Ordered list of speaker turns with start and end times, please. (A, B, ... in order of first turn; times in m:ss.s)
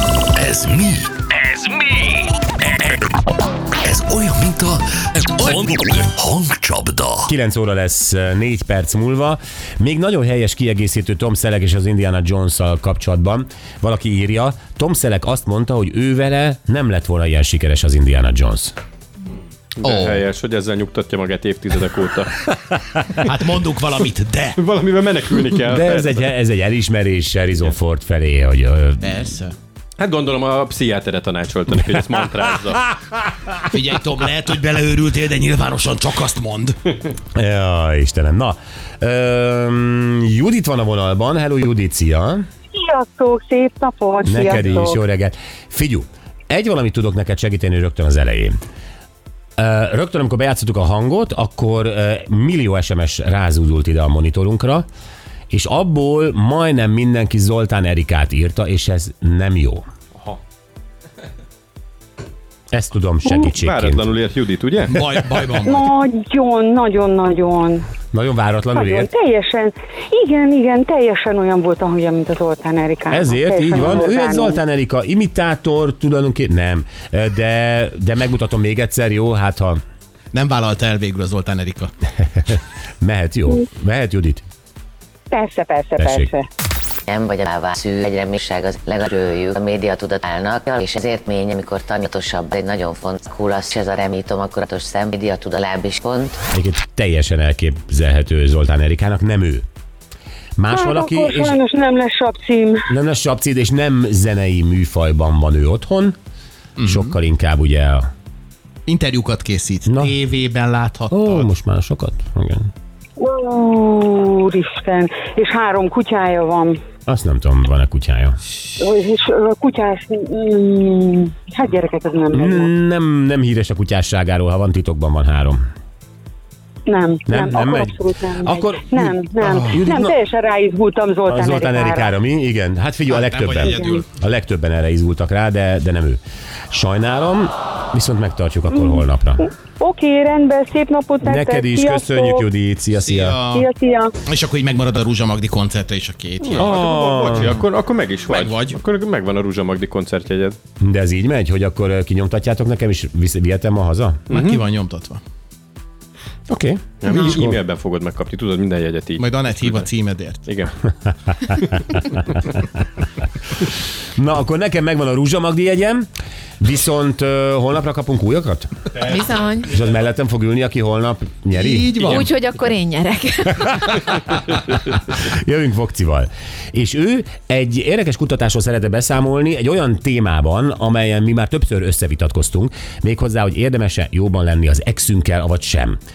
0:00.3-0:01.1 A
0:03.8-0:07.3 A
0:07.2-0:18.7 B
0:19.8-0:22.5 C
0:19.8-0:20.2 D
0:23.2-0:24.6 D
0:24.6-0:26.2 C
0:25.7-0:29.1 B
0:29.0-0:29.6 D
0:30.0-0:32.9 C
0:33.7-0:36.8 D
0:37.3-0:42.4 B
0:42.7-0:45.0 E
0:44.2-0:48.5 B
0:49.6-0:54.9 B
0:55.5-0:59.8 B
1:02.7-1:04.1 B
1:03.6-1:05.1 C
1:04.9-1:05.9 D
1:05.6-1:07.9 E
1:08.1-1:09.1 B
1:08.7-1:14.6 E
1:13.1-1:19.8 B
1:20.3-1:21.9 D
1:23.0-1:24.4 B
1:25.3-1:26.5 E
1:26.0-1:26.3 B
1:27.1-1:36.4 F
1:36.5-1:39.6 B
1:40.6-1:41.6 B
1:40.7-1:42.8 E
1:42.9-1:46.2 B
1:46.8-1:47.1 D
1:46.8-1:48.1 B
1:48.9-1:51.5 D
1:49.9-1:50.1 B
1:51.1-1:52.7 B
1:53.2-1:56.8 E
1:57.1-1:58.4 B
1:58.8-2:02.7 E
2:02.3-2:05.6 B
2:06.9-2:12.1 E
2:07.3-2:10.1 B
2:11.3-2:16.2 B
2:13.1-2:14.0 D
2:13.6-2:14.0 E
2:16.7-2:19.5 B
2:18.7-2:22.4 E
2:21.2-2:23.4 B
2:22.9-2:23.7 D
2:23.5-2:24.1 E
2:24.2-2:26.7 D
2:26.4-2:30.6 C
2:26.6-2:27.6 B
2:28.2-2:28.8 D
2:30.8-2:34.2 B
2:34.3-2:34.6 C
2:34.3-2:35.2 D
2:36.5-2:37.6 B
2:37.0-2:39.9 C
2:37.1-2:37.4 D
2:39.2-2:40.4 D
2:40.4-2:40.8 C
2:41.4-2:42.6 C
2:44.1-2:46.1 B
2:46.6-2:48.7 B
2:49.0-2:49.8 G
2:49.7-2:52.2 B
2:51.5-2:52.3 D
2:52.0-2:54.3 G
2:53.9-2:54.2 B
2:54.9-3:06.0 B